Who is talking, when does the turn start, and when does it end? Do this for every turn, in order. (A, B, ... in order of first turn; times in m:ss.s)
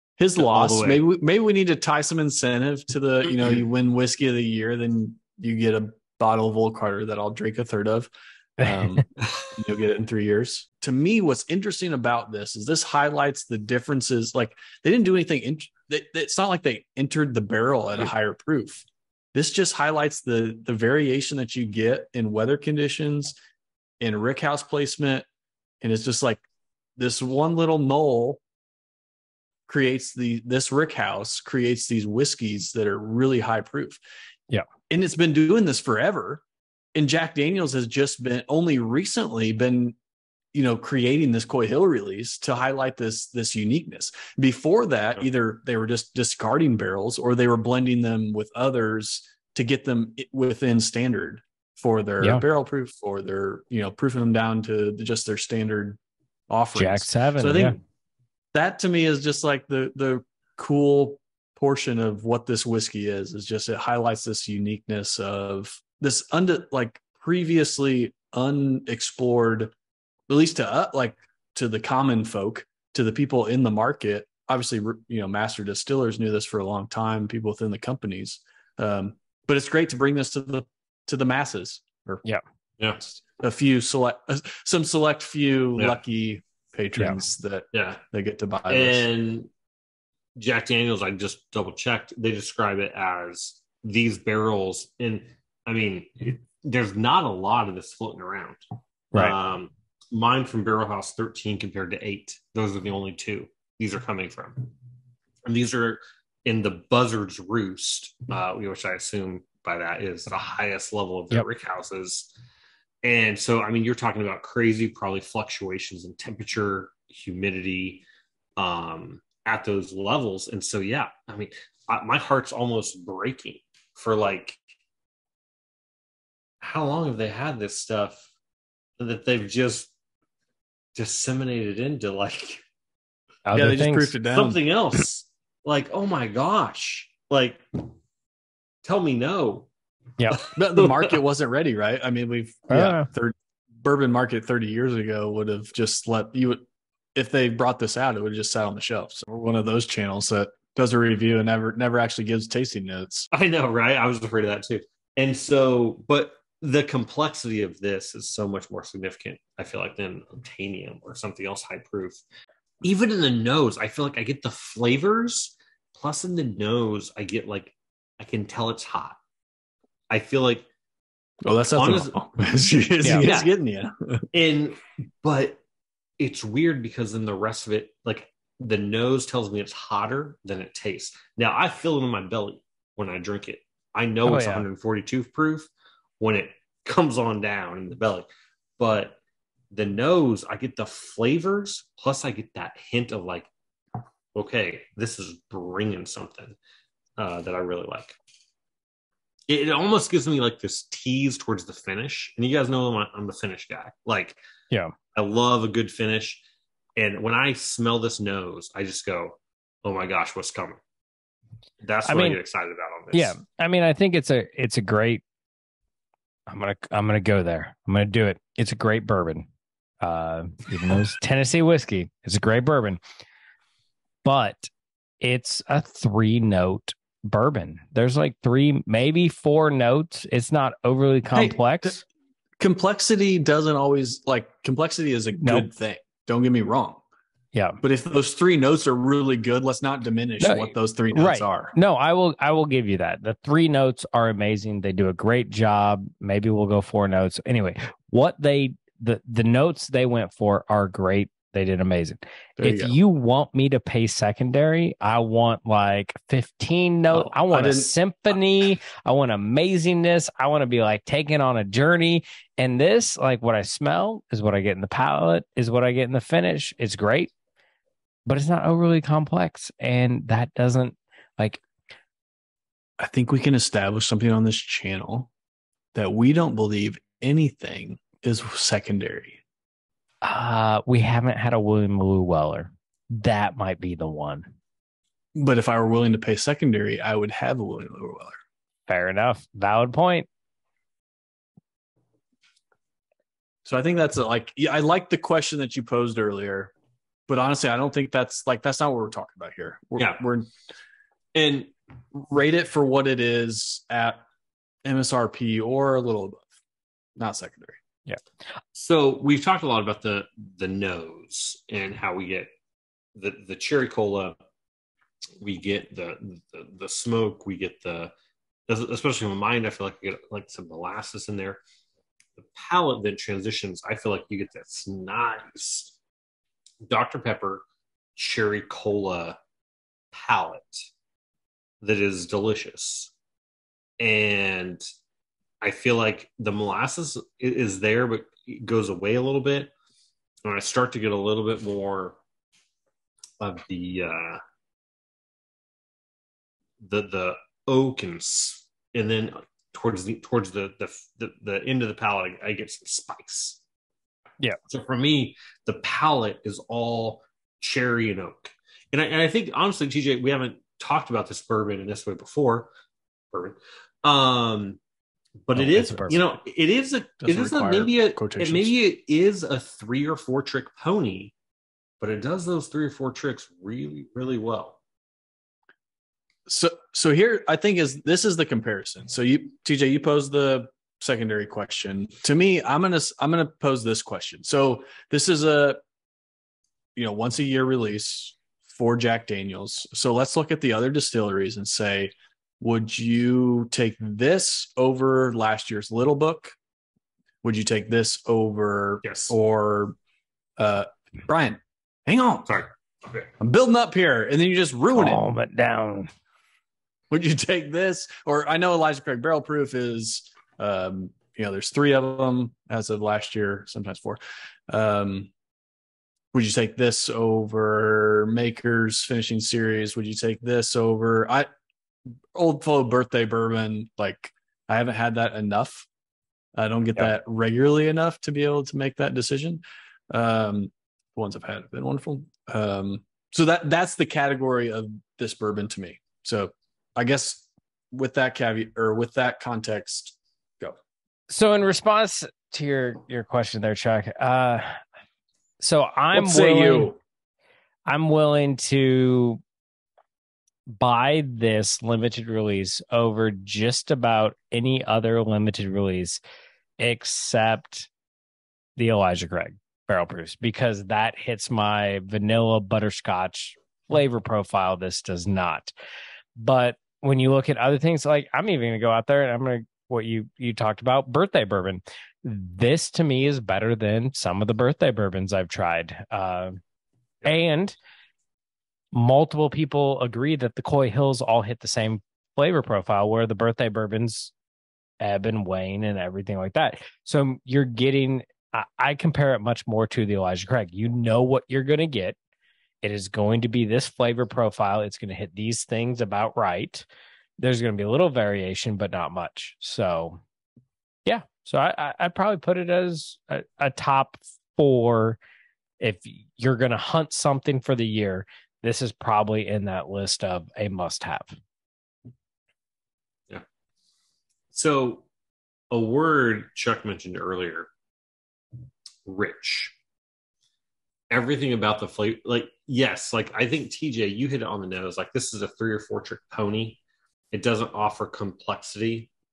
0:00.2-0:23.3 A
0:00.4-0:01.0 B
0:08.6-0:09.0 C
0:24.0-0:25.3 A
0:25.8-0:26.4 A
0:27.0-0:28.4 A
0:29.7-0:34.0 A
0:34.9-0:36.4 A
0:37.0-0:40.0 A
0:40.5-0:56.0 A
0:56.5-0:57.8 A
0:56.7-0:57.8 C
0:58.5-1:09.7 A
1:10.3-1:22.2 A
1:23.0-1:29.1 A
1:27.7-1:28.0 B
1:28.7-1:29.5 B
1:30.4-1:38.6 B
1:39.1-1:44.7 B
1:45.5-1:52.3 B
1:53.0-1:58.0 B
1:58.6-2:04.6 B
2:06.6-2:08.3 B
2:09.0-2:09.9 B
2:11.0-2:12.6 B
2:13.5-2:14.1 C
2:13.5-2:14.6 A
2:14.3-2:17.6 B
2:18.8-2:19.7 B
2:20.3-2:21.1 B
2:20.5-2:26.6 A
2:22.7-2:23.1 C
2:27.2-2:33.3 A
2:33.3-2:42.2 B
2:42.8-2:49.2 B
2:50.1-2:50.7 B
2:51.4-2:54.2 A
2:51.8-2:52.2 B
2:53.0-2:53.3 C
2:53.1-2:53.5 B
2:54.3-2:55.6 B
2:56.2-3:09.2 B
3:04.2-3:04.7 C
3:09.7-3:13.5 B
3:14.3-3:16.6 B
3:17.2-3:18.2 B
3:19.5-3:24.4 B
3:25.1-3:26.4 B
3:27.0-3:30.8 B
3:31.8-3:33.4 B
3:32.1-3:32.4 C
3:33.1-3:35.2 C
3:36.5-3:39.5 C
3:40.0-3:43.0 C
3:44.2-3:44.7 C
3:45.2-3:52.0 C
3:51.3-3:52.0 A
3:52.6-3:57.0 A
3:55.4-3:55.7 C
3:57.5-3:57.8 C
3:57.8-4:01.8 A
4:00.4-4:27.3 C
4:12.6-4:13.0 A
4:17.1-4:18.4 A
4:28.3-4:31.6 C
4:33.0-4:35.3 A
4:35.9-4:39.4 A
4:40.2-4:44.5 C
4:45.4-4:48.4 A
4:48.9-4:50.3 C
4:53.6-4:56.7 A
4:57.3-5:00.5 A
5:00.0-5:00.2 B
5:01.4-5:01.7 B
5:02.2-5:04.2 A
5:04.8-5:06.5 A
5:07.2-5:07.8 A
5:08.7-5:12.5 B
5:13.2-5:14.4 B
5:15.4-5:18.1 B
5:18.7-5:21.6 B
5:22.4-5:26.0 B
5:26.9-5:27.6 B
5:28.2-5:29.4 B
5:30.1-5:30.9 B
5:31.8-5:33.1 B
5:34.0-5:34.8 B
5:35.6-5:39.7 B
5:40.4-5:42.2 B
5:43.4-5:44.4 B
5:46.8-5:53.6 B
5:54.7-6:02.7 B
6:03.3-6:04.8 B
6:05.5-6:11.3 B
6:05.6-6:06.2 C
6:07.2-6:08.8 A
6:12.0-6:14.8 B
6:16.5-6:25.8 A
6:27.0-6:36.6 A
6:37.4-6:40.0 A
6:39.0-6:39.4 B
6:40.6-6:42.6 A
6:42.5-6:43.3 B
6:43.4-6:45.2 A
6:44.9-6:46.1 C
6:47.1-6:55.3 A
6:56.3-7:01.5 A
7:02.4-7:05.9 A
7:06.6-7:20.8 A
7:21.3-7:24.7 C
7:25.6-7:26.9 C
7:26.1-7:27.0 A
7:27.9-7:29.4 C
7:30.7-7:36.2 C
7:36.8-7:37.9 C
7:38.8-7:45.7 C
7:46.4-7:56.6 C
7:57.2-7:57.8 C
7:58.9-8:04.3 C
8:05.0-8:12.2 C
8:12.8-8:16.9 C
8:17.4-8:20.2 C
8:21.1-8:25.2 C
8:25.8-8:31.4 C
8:34.5-8:35.1 B
8:35.7-8:37.7 B
8:39.0-8:39.8 B
8:41.1-8:49.1 B